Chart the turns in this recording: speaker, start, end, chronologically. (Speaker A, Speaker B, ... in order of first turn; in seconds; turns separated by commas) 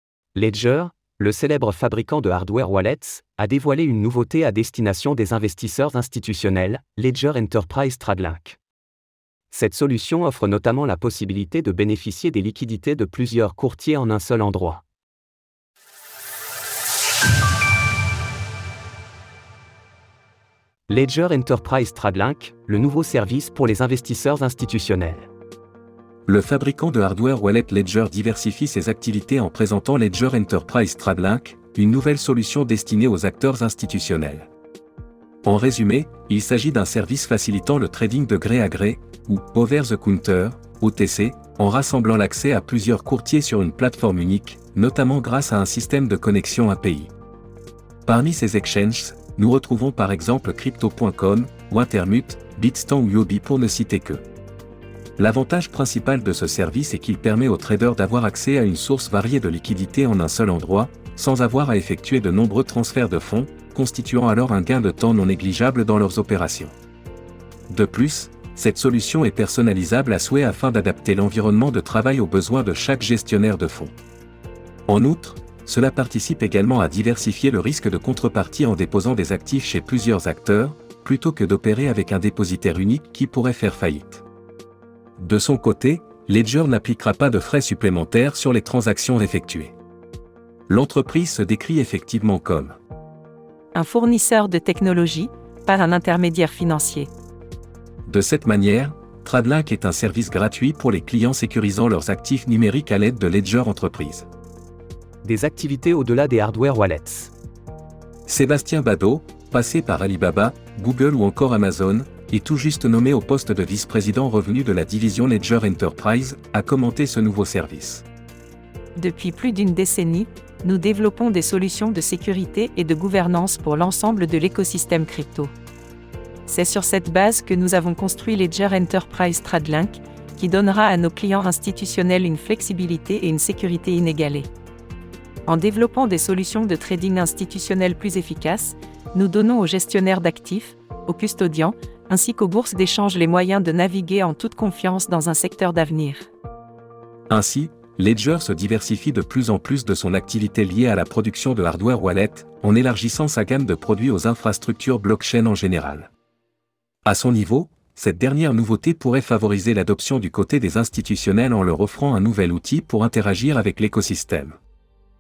Speaker A: 0.3-8.6, Speaker A: 9.5-14.8, Speaker A: 20.9-25.3, Speaker B: 26.3-34.5, Speaker B: 35.4-47.1, Speaker B: 48.0-54.2, Speaker B: 55.2-66.8, Speaker B: 67.7-73.9, Speaker B: 74.9-84.2, Speaker B: 85.2-89.8, Speaker B: 90.7-92.8, Speaker C: 93.8-97.1, Speaker B: 98.1-104.3, Speaker A: 105.2-107.3, Speaker B: 108.3-118.0, Speaker C: 119.0-125.5, Speaker C: 126.5-134.5, Speaker C: 135.5-146.3, Speaker B: 147.3-156.1, Speaker B: 157.1-164.6